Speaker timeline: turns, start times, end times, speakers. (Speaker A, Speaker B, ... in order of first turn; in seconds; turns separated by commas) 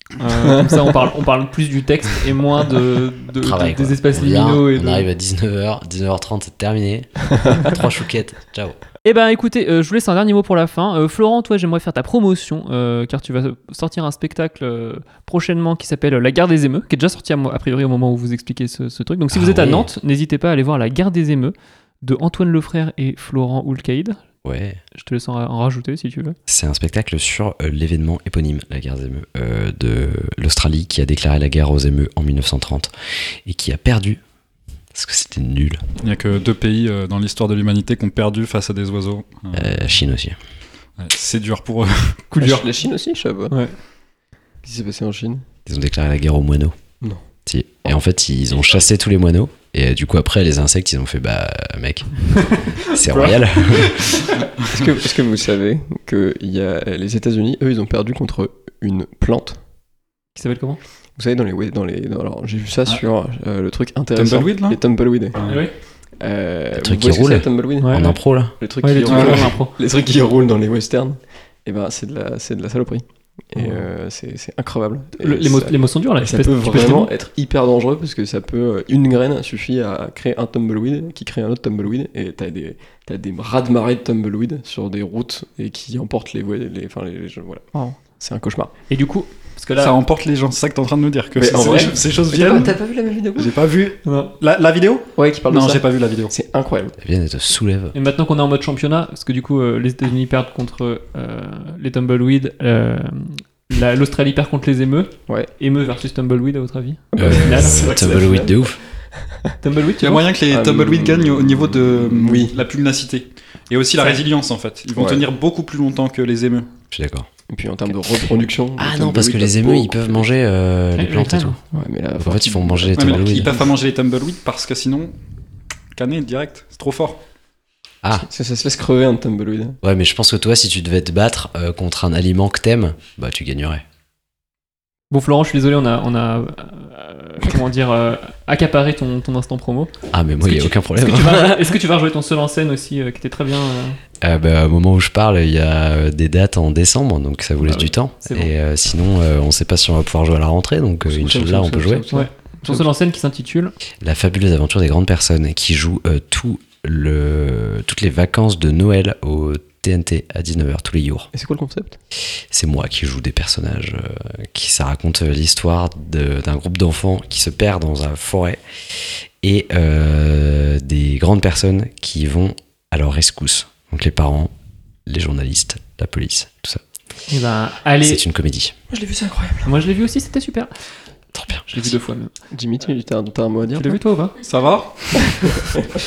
Speaker A: 0.2-5.1, Speaker B: 3.4-8.8, Speaker A: 9.0-24.2, Speaker B: 19.3-19.9, Speaker B: 24.4-24.8, Speaker A: 24.9-26.4, Speaker B: 26.5-32.9, Speaker B: 33.5-34.2, Speaker B: 34.9-35.8, Speaker C: 36.0-39.9, Speaker B: 39.5-40.4, Speaker C: 41.0-42.6, Speaker D: 42.4-43.6, Speaker A: 43.5-43.8, Speaker D: 44.6-45.4, Speaker B: 45.7-46.8, Speaker B: 47.5-54.3, Speaker D: 54.7-59.6, Speaker A: 60.4-60.8, Speaker D: 61.2-65.4, Speaker C: 64.2-64.8, Speaker C: 65.4-65.6, Speaker A: 65.4-65.7, Speaker D: 66.2-88.7, Speaker B: 66.7-68.5, Speaker A: 67.8-68.2, Speaker A: 68.8-69.7, Speaker C: 69.1-69.5, Speaker A: 73.6-73.9, Speaker A: 75.2-77.1, Speaker A: 88.9-89.9, Speaker C: 89.8-92.8, Speaker D: 91.3-93.6, Speaker C: 93.4-96.3, Speaker A: 94.0-94.3, Speaker D: 95.2-97.0, Speaker B: 97.0-98.0, Speaker A: 97.9-107.8, Speaker D: 107.1-109.5, Speaker B: 107.2-108.8, Speaker A: 109.6-110.3, Speaker C: 110.0-116.7, Speaker D: 110.5-112.6, Speaker D: 115.0-115.3, Speaker B: 116.9-117.3, Speaker D: 117.5-120.3, Speaker B: 118.8-121.6, Speaker A: 121.0-121.6, Speaker D: 121.7-123.6, Speaker B: 122.2-123.5, Speaker C: 123.0-125.2, Speaker C: 126.0-127.2, Speaker D: 128.2-129.8, Speaker B: 129.8-133.8, Speaker A: 135.1-144.0, Speaker B: 140.1-141.8, Speaker B: 144.2-152.1, Speaker A: 147.6-148.5, Speaker D: 151.1-152.9, Speaker A: 152.1-153.7, Speaker B: 154.0-161.3, Speaker D: 161.3-162.0, Speaker B: 162.5-168.6, Speaker B: 169.4-174.5, Speaker B: 175.1-176.8, Speaker A: 177.3-178.2, Speaker B: 178.0-178.8, Speaker D: 178.9-179.7, Speaker A: 179.7-180.7, Speaker B: 181.3-181.9, Speaker A: 181.7-182.3, Speaker D: 182.5-184.0, Speaker A: 183.8-184.4, Speaker C: 184.4-185.6